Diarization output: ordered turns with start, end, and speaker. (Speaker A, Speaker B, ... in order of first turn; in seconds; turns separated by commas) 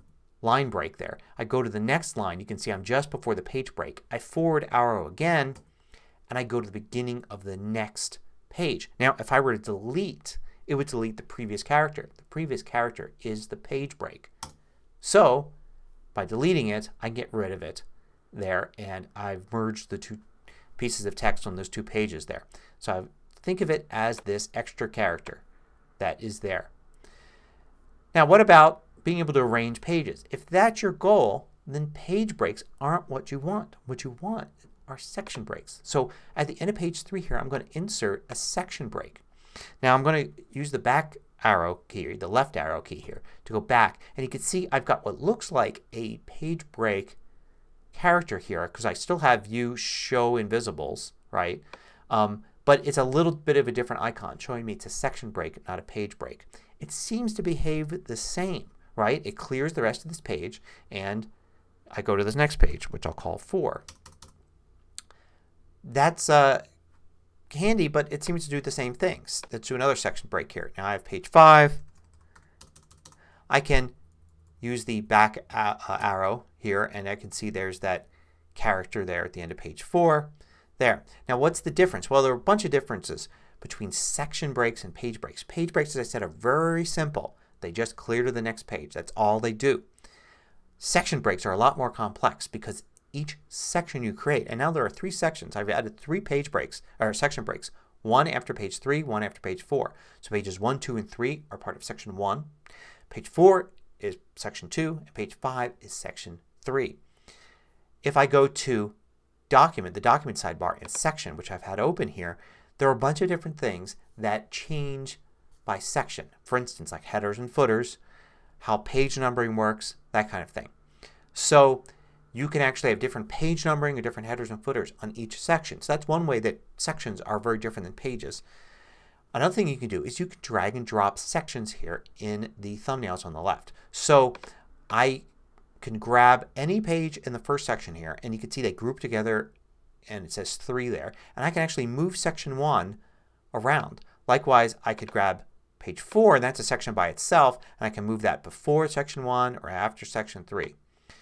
Speaker A: 0.4-5.6, Speaker A: 6.3-14.3, Speaker A: 15.0-15.5, Speaker A: 16.1-20.2, Speaker A: 20.8-25.4, Speaker A: 26.0-26.7, Speaker A: 28.1-39.2, Speaker A: 39.8-47.2, Speaker A: 47.9-61.3, Speaker A: 61.9-63.8, Speaker A: 65.8-66.6, Speaker A: 67.5-71.8, Speaker A: 73.5-73.9, Speaker A: 74.6-89.8, Speaker A: 90.8-102.5, Speaker A: 103.1-107.0, Speaker A: 108.0-108.9, Speaker A: 109.5-118.0, Speaker A: 118.6-120.7, Speaker A: 121.3-128.4, Speaker A: 129.3-134.4, Speaker A: 134.9-135.2, Speaker A: 135.8-139.5, Speaker A: 140.1-143.0, Speaker A: 143.5-150.8